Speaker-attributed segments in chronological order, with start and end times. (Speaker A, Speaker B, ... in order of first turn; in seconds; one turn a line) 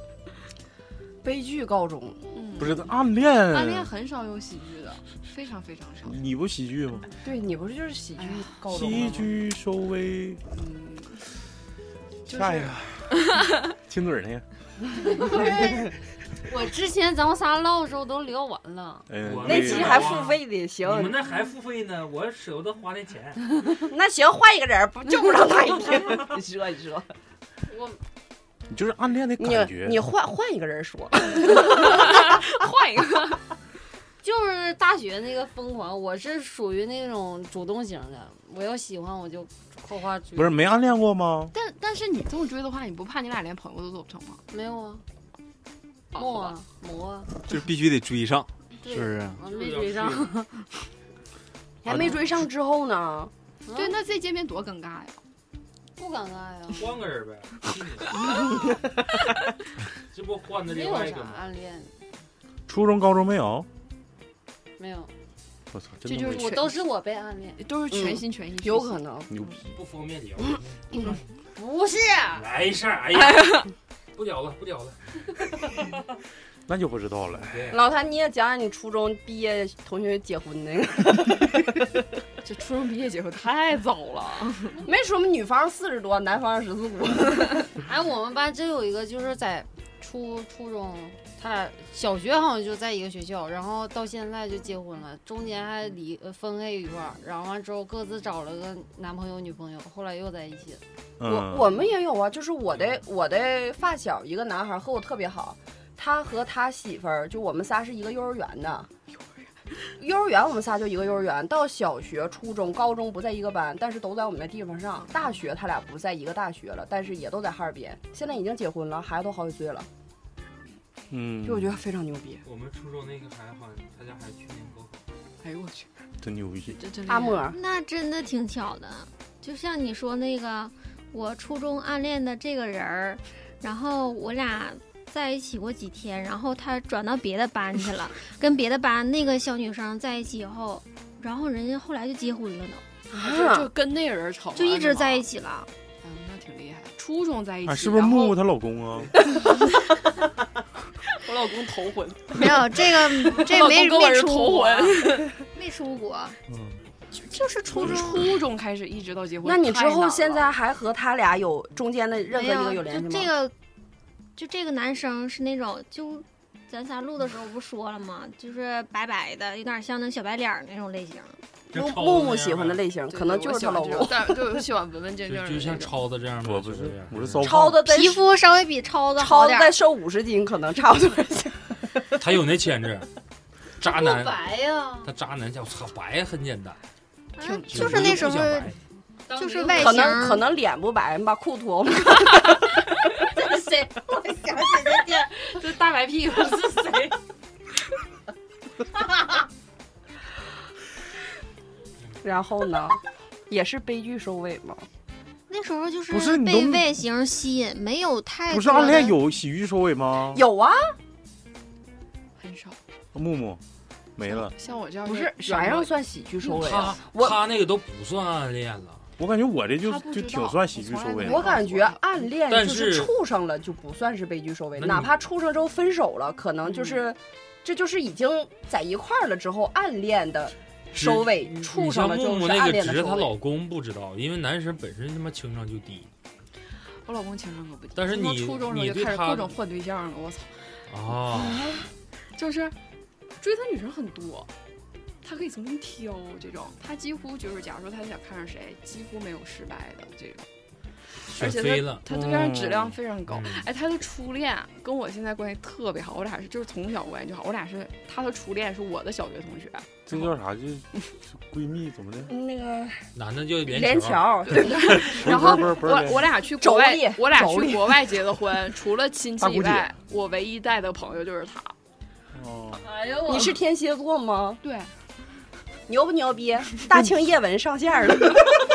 Speaker A: 1.2-2.2
Speaker B: 2.3-2.9
Speaker C: 2.6-3.9
Speaker B: 3.5-6.2
Speaker C: 6.0-7.0
Speaker A: 7.2-9.3
Speaker B: 8.2-8.4
Speaker C: 8.7-10.4
Speaker B: 10.5-11.2
Speaker B: 12.3-13.5
Speaker C: 12.3-14.4
Speaker D: 15.0-15.9
Speaker D: 16.4-19.1
Speaker C: 19.1-20.1
Speaker E: 19.2-23.5
Speaker A: 19.4-21.1
Speaker A: 23.8-27.1
Speaker D: 27.7-28.0
Speaker C: 28.7-30.0
Speaker A: 29.4-32.4
Speaker B: 31.4-33.4
Speaker D: 34.2-40.6
Speaker C: 40.4-41.5
Speaker B: 41.5-44.4
Speaker D: 44.5-45.0
Speaker B: 46.1-46.5
Speaker D: 46.1-47.3
Speaker F: 47.4-49.4
Speaker D: 48.8-50.6
Speaker E: 49.4-50.3
Speaker A: 51.8-53.3
Speaker D: 51.9-52.2
Speaker D: 53.6-54.0
Speaker B: 53.7-55.2
Speaker D: 56.0-56.9
Speaker E: 56.7-58.4
Speaker E: 60.1-61.4
Speaker D: 60.6-61.9
Speaker C: 62.7-63.7
Speaker D: 64.8-65.1
Speaker C: 65.7-66.6
Speaker B: 66.1-66.8
Speaker D: 66.1-67.6
Speaker B: 67.6-69.0
Speaker A: 67.9-69.3
Speaker C: 69.3-69.7
Speaker E: 69.7-71.2
Speaker D: 71.5-72.4
Speaker E: 72.3-75.0
Speaker C: 76.7-77.6
Speaker E: 77.5-77.8
Speaker A: 77.7-81.8
Speaker B: 82.4-84.8
Speaker A: 84.8-87.7
Speaker D: 87.8-100.8
Speaker C: 101.2-101.7
Speaker A: 101.2-108.9
Speaker A: 110.0-119.9
Speaker C: 121.1-121.8
Speaker A: 121.4-122.4
Speaker E: 122.4-125.0
Speaker B: 125.4-125.9
Speaker C: 126.2-126.8
Speaker B: 126.8-127.4
Speaker A: 127.1-127.6
Speaker G: 127.5-142.8
Speaker A: 143.1-143.7
Speaker B: 143.2-145.3
Speaker G: 144.5-145.7
Speaker B: 146.0-148.4
Speaker C: 147.7-149.1
Speaker B: 149.3-150.0
Speaker B: 151.1-155.3
Speaker G: 152.3-156.4
Speaker C: 156.5-156.8
Speaker B: 157.1-160.5
Speaker G: 157.4-158.3
Speaker A: 159.4-163.3
Speaker G: 162.3-163.5
Speaker G: 164.3-171.4
Speaker E: 171.7-172.8
Speaker A: 171.7-174.6
Speaker B: 173.1-175.9
Speaker E: 175.3-177.5
Speaker C: 176.4-177.9
Speaker A: 177.4-178.2
Speaker G: 177.8-179.8
Speaker A: 179.1-182.0
Speaker E: 182.2-183.1
Speaker E: 183.8-184.4
Speaker D: 183.8-185.1
Speaker E: 185.0-186.8
Speaker G: 187.3-188.7
Speaker E: 187.7-188.8
Speaker D: 189.3-190.1
Speaker G: 189.3-190.5
Speaker A: 189.7-192.6
Speaker D: 193.2-197.2
Speaker D: 198.9-199.4
Speaker A: 202.2-204.8
Speaker G: 205.5-209.2
Speaker C: 206.1-207.0
Speaker C: 208.5-210.4
Speaker A: 210.3-210.8
Speaker B: 212.4-212.8
Speaker C: 213.1-213.6
Speaker C: 214.2-214.5
Speaker B: 214.2-215.9
Speaker A: 215.0-217.4
Speaker E: 216.4-219.0
Speaker C: 219.2-221.5
Speaker B: 219.8-222.0
Speaker A: 221.2-233.3
Speaker E: 222.5-223.1
Speaker E: 224.8-225.1
Speaker B: 226.7-227.0
Speaker E: 230.9-236.1
Speaker B: 237.0-240.7
Speaker E: 237.9-239.5
Speaker E: 240.9-241.6
Speaker B: 242.3-242.7
Speaker B: 243.4-244.5
Speaker B: 245.2-250.5
Speaker B: 251.3-260.3
Speaker E: 251.3-252.0
Speaker C: 252.1-253.0
Speaker E: 253.3-253.6
Speaker C: 260.1-262.3
Speaker A: 262.3-263.0
Speaker E: 263.1-264.6
Speaker A: 263.6-265.8
Speaker B: 264.5-271.7
Speaker C: 265.0-266.3
Speaker A: 266.6-268.1
Speaker C: 269.4-269.9
Speaker C: 272.3-272.8
Speaker D: 272.8-273.6
Speaker A: 273.2-274.6
Speaker B: 274.6-274.9
Speaker A: 275.9-278.6